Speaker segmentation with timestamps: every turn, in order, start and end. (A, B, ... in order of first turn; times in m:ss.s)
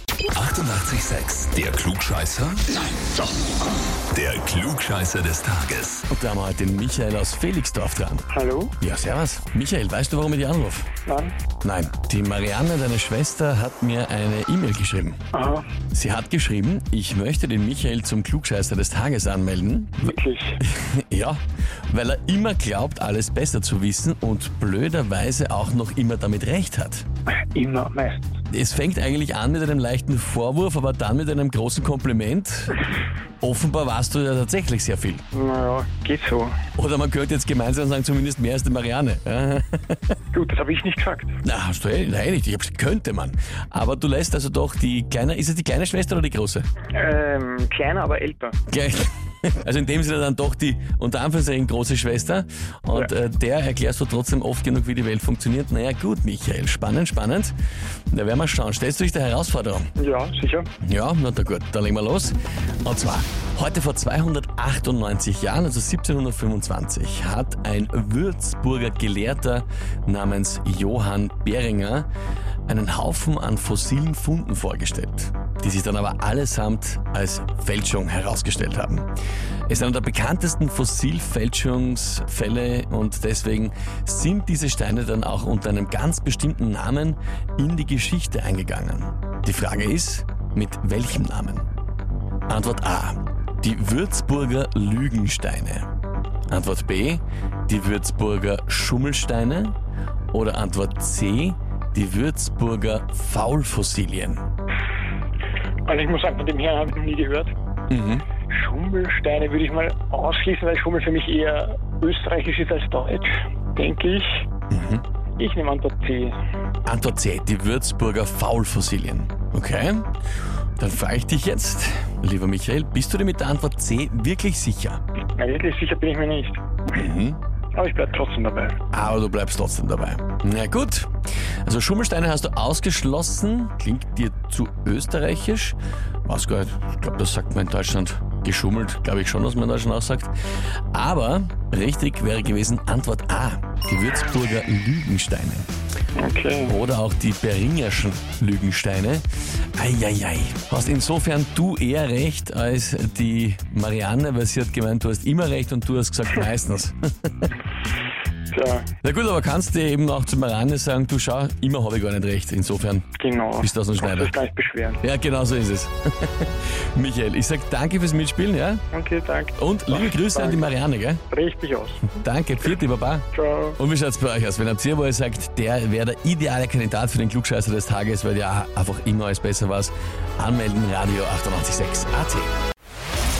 0:00.3-0:02.8 A
0:04.1-0:06.0 A
0:06.1-0:08.3 B
0:08.3-0:08.7 C
0:08.8-0:10.9 B
0:11.0-0:11.4 C
0:11.6-0:15.2 B
0:15.3-0:15.7 C
0:15.9-0:27.0 B
0:20.0-0:20.6 C
0:27.5-0:28.4 C
0:28.5-0:32.8 B
0:33.4-0:35.2 B
0:35.3-0:36.6 C
0:36.8-0:40.2 B
0:40.3-0:41.4 C
0:41.4-0:46.7 B
0:46.9-0:48.6 C
0:48.7-0:57.5 B
0:58.1-0:59.9 B
1:00.0-1:00.7 C
1:00.8-1:12.1 B
1:12.7-1:19.1 B
1:19.7-1:31.7 B
1:32.5-1:35.9 B
1:36.5-1:39.7 B
1:40.3-1:44.4 B
1:45.9-1:47.5 C
1:47.9-1:48.3 B
1:48.4-1:54.4 C
1:54.7-1:55.0 B
1:55.4-1:56.4 C
1:56.8-2:00.1 B
2:00.8-2:05.0 B
2:05.4-2:06.6 C
2:06.9-2:07.4 B
2:07.7-2:08.8 C
2:08.9-2:11.1 B
2:11.6-2:20.3 B
2:20.9-2:25.7 B
2:26.2-2:26.7 C
2:26.6-2:29.2 B
2:29.7-2:37.5 B
2:38.5-2:38.9 C
2:39.0-2:44.3 B
2:43.2-2:45.0 C
2:45.0-2:48.8 B
2:48.9-2:50.7 C
2:49.6-2:51.2 B
2:51.3-2:52.1 C
2:52.1-2:53.3 B
2:53.3-2:53.8 C
2:53.8-3:02.5 B